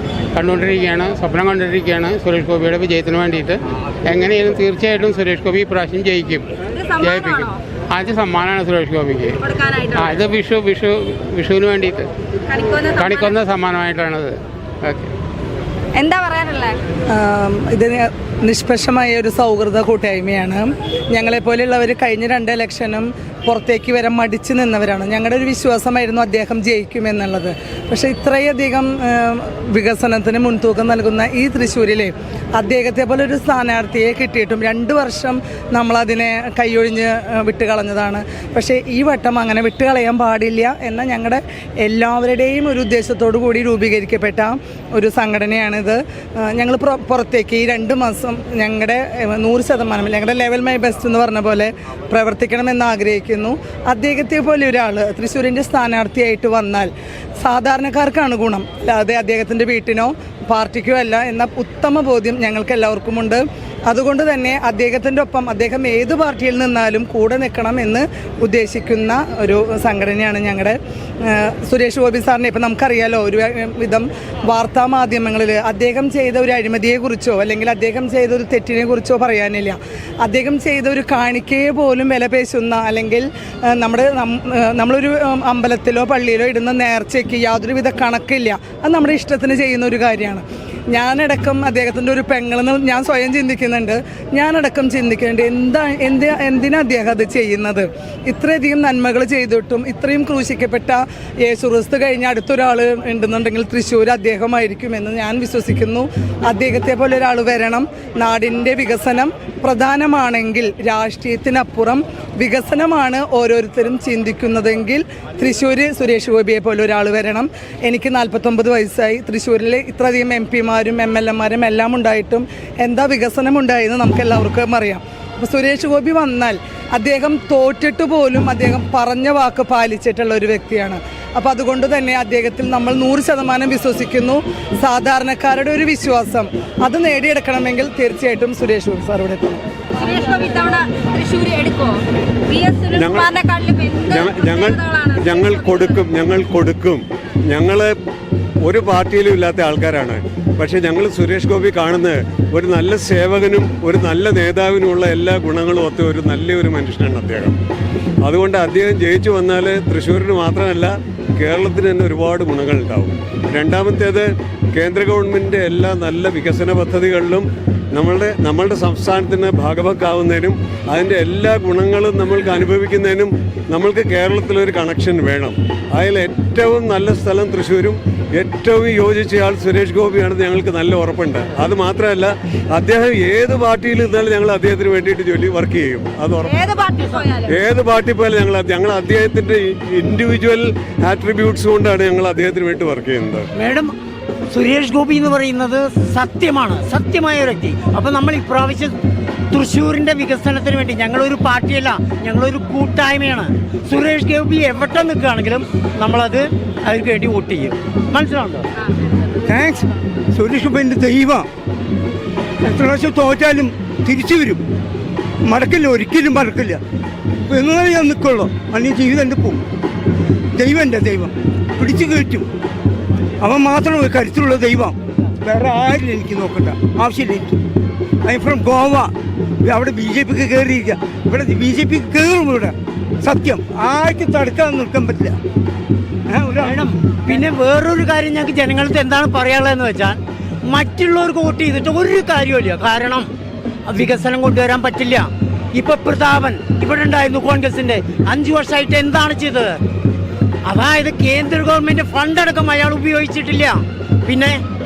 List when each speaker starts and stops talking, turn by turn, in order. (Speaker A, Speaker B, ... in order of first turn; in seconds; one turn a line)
Speaker A: 0.3-9.4
Speaker B: 6.7-7.6
Speaker B: 9.4-10.2
Speaker A: 9.9-12.1
Speaker B: 12.5-13.4
Speaker A: 13.0-15.1
Speaker B: 15.9-16.8
Speaker C: 17.1-139.6
Speaker B: 140.0-145.9
Speaker D: 142.9-143.4
Speaker D: 144.1-147.9
Speaker D: 148.7-157.6
Speaker D: 158.2-186.6
Speaker B: 186.4-187.5
Speaker E: 187.0-187.3
Speaker D: 187.4-193.5
Speaker E: 193.6-193.9
Speaker E: 194.5-198.9
Speaker E: 199.5-208.7
Speaker F: 209.5-211.5
Speaker F: 212.6-214.6
Speaker F: 215.5-216.8
Speaker F: 217.5-219.6
Speaker F: 220.6-222.5
Speaker F: 223.4-227.6
Speaker F: 228.2-229.1
Speaker F: 229.6-235.4
Speaker F: 236.3-237.4
Speaker E: 236.7-243.3
Speaker E: 243.9-249.8
Speaker E: 250.7-254.6